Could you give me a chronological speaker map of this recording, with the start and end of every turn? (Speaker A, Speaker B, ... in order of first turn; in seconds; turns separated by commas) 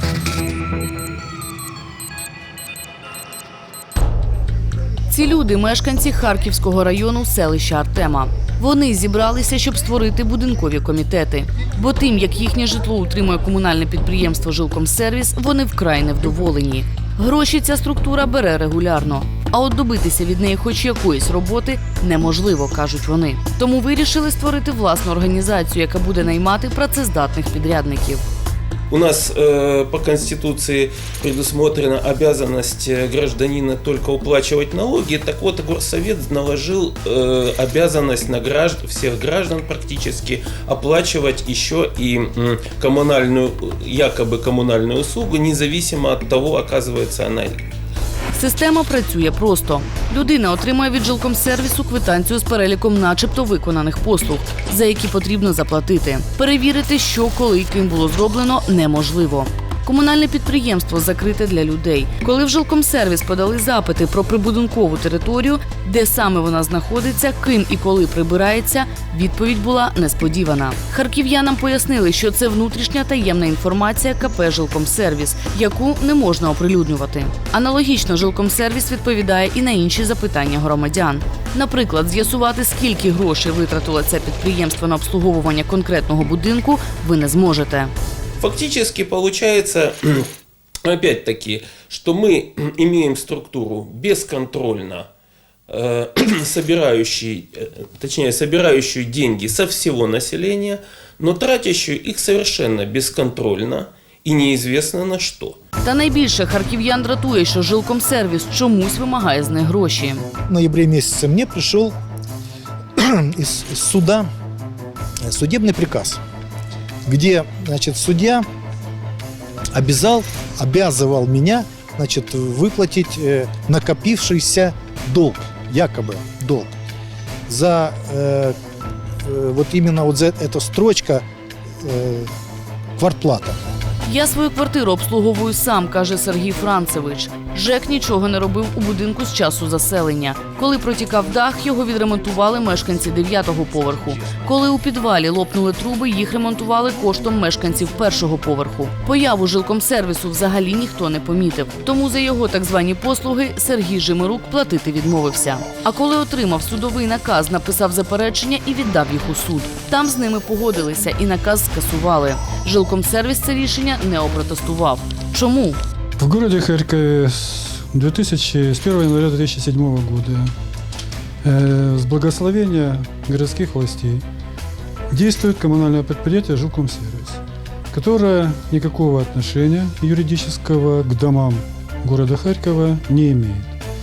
Speaker A: 5.1-28.2, Speaker B: 28.9-47.6, Speaker A: 48.3-87.9, Speaker B: 88.4-90.3, Speaker B: 90.8-95.1, Speaker B: 95.7-105.6, Speaker A: 105.8-110.3, Speaker C: 110.5-111.9, Speaker C: 113.0-114.3, Speaker C: 115.3-116.2, Speaker C: 117.1-118.4, Speaker C: 119.8-126.7, Speaker C: 127.5-128.5, Speaker C: 129.3-131.2, Speaker C: 131.9-132.2, Speaker C: 133.0-133.6, Speaker A: 134.0-165.8, Speaker D: 166.2-170.5, Speaker D: 171.4-174.2, Speaker D: 175.1-177.4, Speaker D: 177.9-183.8